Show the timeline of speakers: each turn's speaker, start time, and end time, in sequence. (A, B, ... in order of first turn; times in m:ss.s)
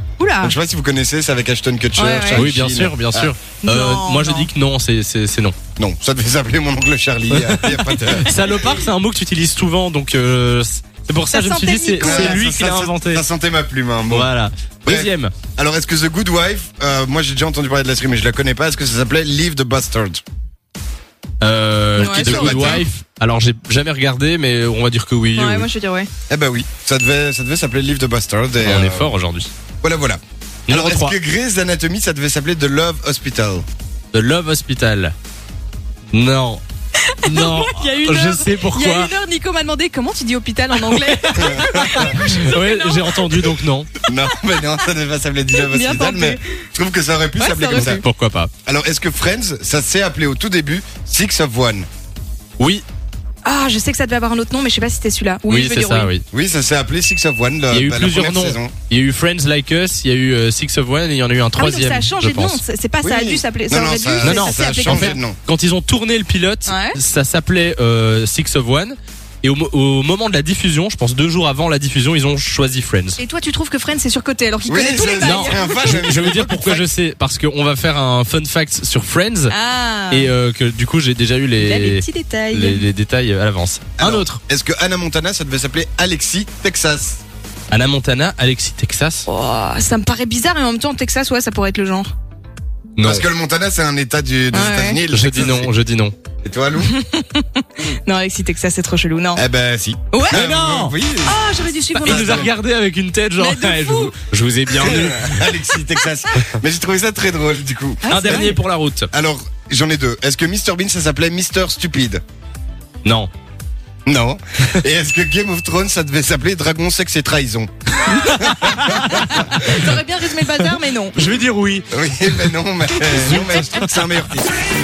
0:00.2-0:00.6 A
0:00.4-0:03.3 B
0:02.0-0:02.5 A
0:02.3-0:05.6 C
0:03.6-0:04.5 A
0:05.8-0:08.4 B
0:07.3-0:13.2 C
0:11.3-0:12.4 A
0:12.0-0:14.3 B
0:14.1-0:15.3 C
0:14.8-0:20.2 B
0:21.4-0:25.7 C
0:22.0-0:22.8 A
0:22.0-0:22.8 B
0:25.3-0:26.1 A
0:26.3-0:29.1 B
0:28.6-0:29.5 C
0:29.8-0:33.6 B
0:30.7-0:31.1 C
0:34.1-0:35.1 C
0:36.1-0:36.6 C
0:37.1-0:43.5 A
0:37.2-0:39.1 C
0:40.8-0:43.9 C
0:41.4-0:42.4 B
0:44.0-0:48.0 B
0:45.5-0:46.4 A
0:47.4-0:48.0 A
0:47.7-0:48.5 C
0:48.6-0:51.9 B
0:52.6-0:52.8 C
0:53.4-0:56.1 A
0:55.5-0:56.2 C
0:56.3-0:58.7 B
0:57.7-1:02.6 C
1:01.6-1:05.2 A
1:03.0-1:05.4 B
1:04.2-1:13.2 C
1:06.6-1:07.0 A
1:13.2-1:16.0 A
1:14.7-1:16.9 B
1:15.2-1:19.5 C
1:19.5-1:20.3 A
1:20.1-1:24.4 C
1:21.6-1:22.8 A
1:24.0-1:27.2 B
1:27.7-1:29.3 C
1:29.3-1:32.1 A
1:33.0-1:33.2 C
1:33.0-1:35.7 B
1:34.5-1:35.0 A
1:35.1-1:36.1 C
1:36.4-1:36.9 B
1:36.8-1:39.4 A
1:39.3-1:42.5 B
1:40.1-1:40.4 A
1:40.3-1:40.9 C
1:41.2-1:42.5 A
1:42.0-1:45.5 C
1:43.4-1:44.1 A
1:44.7-1:48.6 B
1:48.0-1:48.6 A
1:48.1-1:49.1 C
1:49.1-1:52.2 B
1:53.0-1:53.3 C
1:54.0-1:59.3 B
1:58.0-2:03.9 C
1:59.1-2:01.2 A
2:01.9-2:04.5 B